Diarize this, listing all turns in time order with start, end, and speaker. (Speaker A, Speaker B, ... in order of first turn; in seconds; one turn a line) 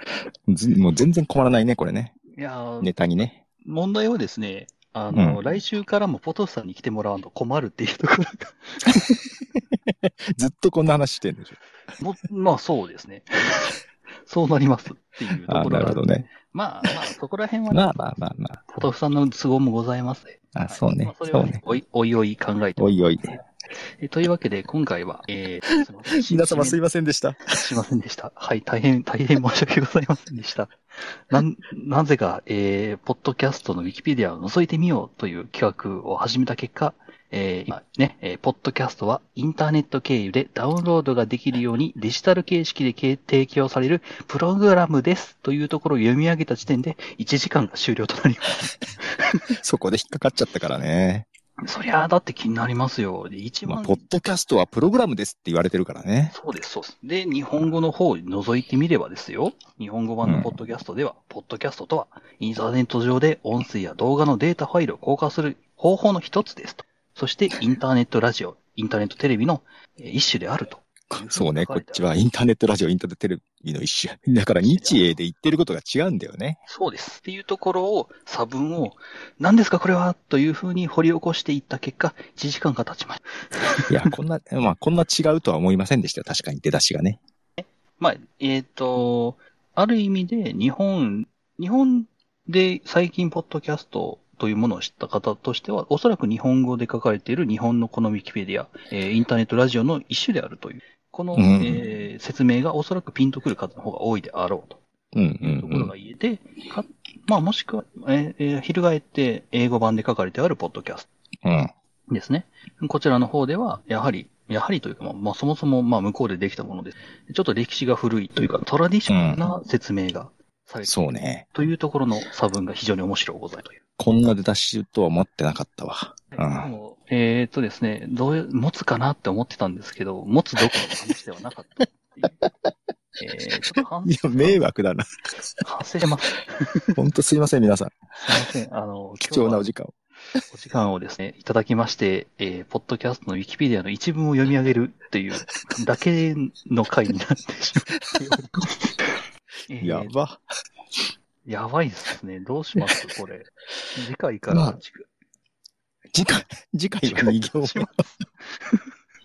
Speaker A: 0.5-2.2
Speaker B: 2.3-2.9
Speaker A: 2.8-3.4
Speaker B: 3.6-9.2
Speaker A: 5.1-5.4
Speaker A: 9.9-11.6
Speaker B: 12.0-26.8
Speaker A: 15.5-16.3
Speaker A: 17.7-18.6
Speaker A: 20.5-21.6
Speaker A: 22.8-23.4
Speaker A: 26.2-27.4
Speaker B: 27.5-49.4
Speaker A: 49.5-51.2
Speaker B: 51.6-54.0
Speaker A: 53.7-56.4
Speaker B: 56.3-72.0
Speaker A: 60.2-60.6
Speaker A: 71.1-76.6
Speaker B: 74.7-75.1
Speaker B: 76.7-84.1
Speaker A: 83.9-87.2
Speaker B: 87.6-104.8
Speaker A: 101.3-101.8
Speaker A: 105.1-105.9
Speaker B: 105.4-111.1
Speaker A: 111.4-111.7
Speaker B: 112.1-123.8
Speaker A: 119.1-119.4
Speaker A: 120.8-121.4
Speaker A: 124.0-126.7
Speaker B: 126.3-132.4
Speaker A: 130.6-130.9
Speaker B: 133.2-134.6
Speaker A: 134.0-135.1
Speaker B: 135.6-136.9
Speaker A: 136.9-138.4
Speaker B: 138.2-139.7
Speaker A: 139.2-139.9
Speaker B: 140.5-149.1
Speaker B: 149.7-150.1
Speaker A: 149.8-150.4
Speaker B: 151.4-155.1
Speaker A: 154.5-154.8
Speaker A: 156.1-157.9
Speaker B: 157.0-158.8